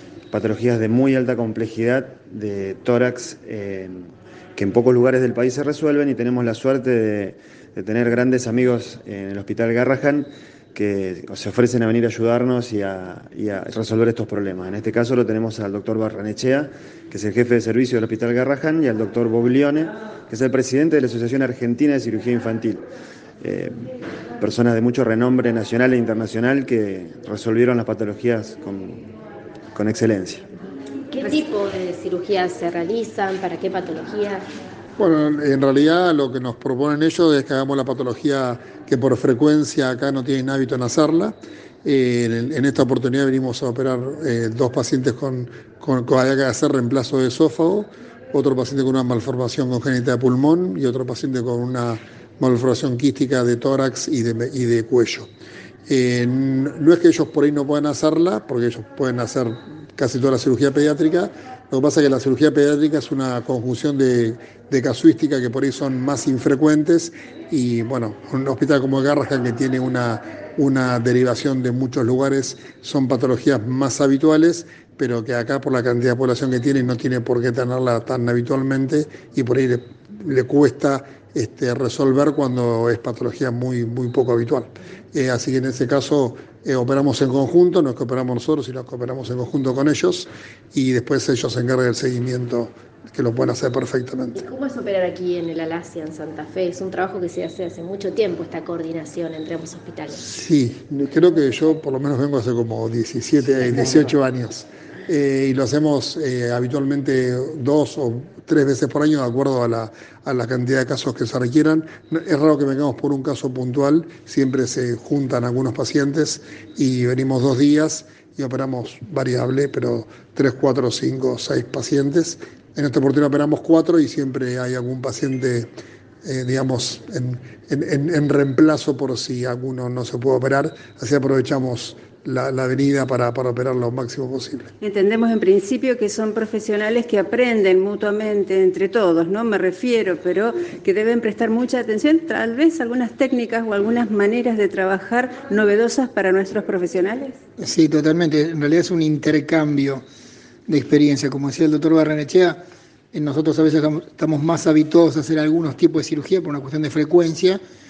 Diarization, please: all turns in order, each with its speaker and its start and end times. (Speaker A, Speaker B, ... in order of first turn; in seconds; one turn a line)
Speaker A: 0.3-22.9
Speaker A: 23.4-23.8
Speaker A: 24.4-29.1
Speaker A: 29.8-30.5
Speaker B: 31.1-34.5
Speaker C: 35.0-55.3
Speaker C: 55.9-94.4
Speaker B: 94.4-100.2
Speaker C: 100.2-125.7
Speaker C: 126.2-134.7
Speaker D: 134.8-147.3
Speaker E: 147.6-150.0
Speaker E: 150.7-152.6
Speaker E: 153.1-157.6